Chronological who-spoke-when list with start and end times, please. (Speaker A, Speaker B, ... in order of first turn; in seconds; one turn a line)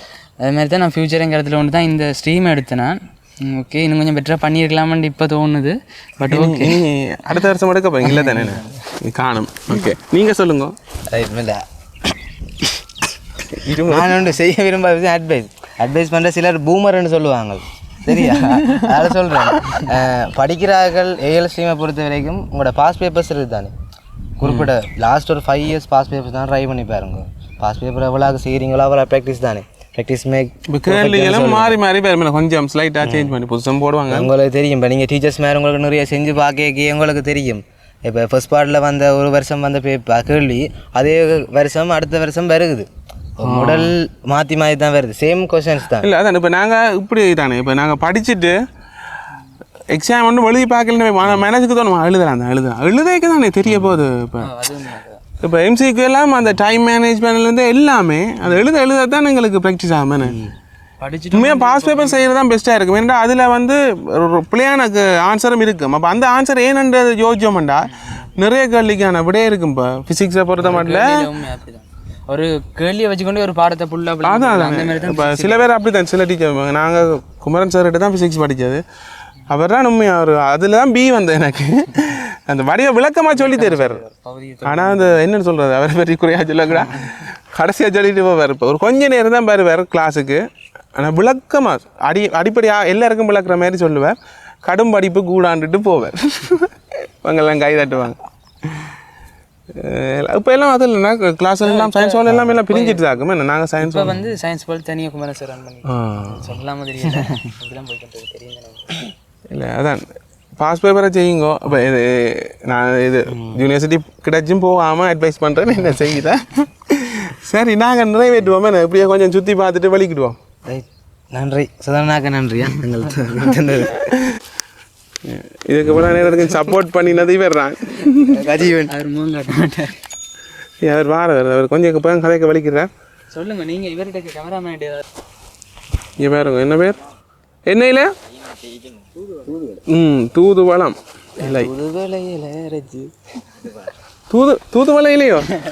Speaker A: 0.4-6.9
Speaker B: 6.2-10.8
Speaker A: 8.1-8.6
Speaker C: 11.1-11.6
Speaker B: 13.5-14.2
Speaker C: 13.9-23.7
Speaker C: 24.4-31.8
Speaker B: 24.4-24.7
Speaker B: 30.7-34.3
Speaker C: 33.0-33.3
Speaker C: 34.1-42.9
Speaker C: 43.4-46.1
Speaker B: 43.4-43.9
Speaker B: 46.0-48.6
Speaker B: 49.9-54.5
Speaker A: 54.4-55.2
Speaker B: 55.4-60.4
Speaker C: 60.2-60.5
Speaker A: 61.0-62.2
Speaker B: 61.3-71.3
Speaker A: 67.9-68.3
Speaker A: 70.6-75.7
Speaker B: 74.2-78.8
Speaker B: 79.5-84.0
Speaker A: 83.3-85.2
Speaker B: 84.6-90.4
Speaker B: 91.0-98.2
Speaker B: 99.8-104.2
Speaker A: 101.6-103.0
Speaker A: 103.8-109.0
Speaker B: 105.9-106.5
Speaker B: 109.5-120.4
Speaker C: 120.7-124.1
Speaker B: 125.2-128.5
Speaker C: 128.3-128.9
Speaker A: 128.6-129.9
Speaker B: 130.8-132.9
Speaker A: 133.3-135.0
Speaker B: 136.2-137.0
Speaker B: 137.7-138.1
Speaker B: 139.9-141.7
Speaker C: 141.4-143.9
Speaker B: 144.3-145.5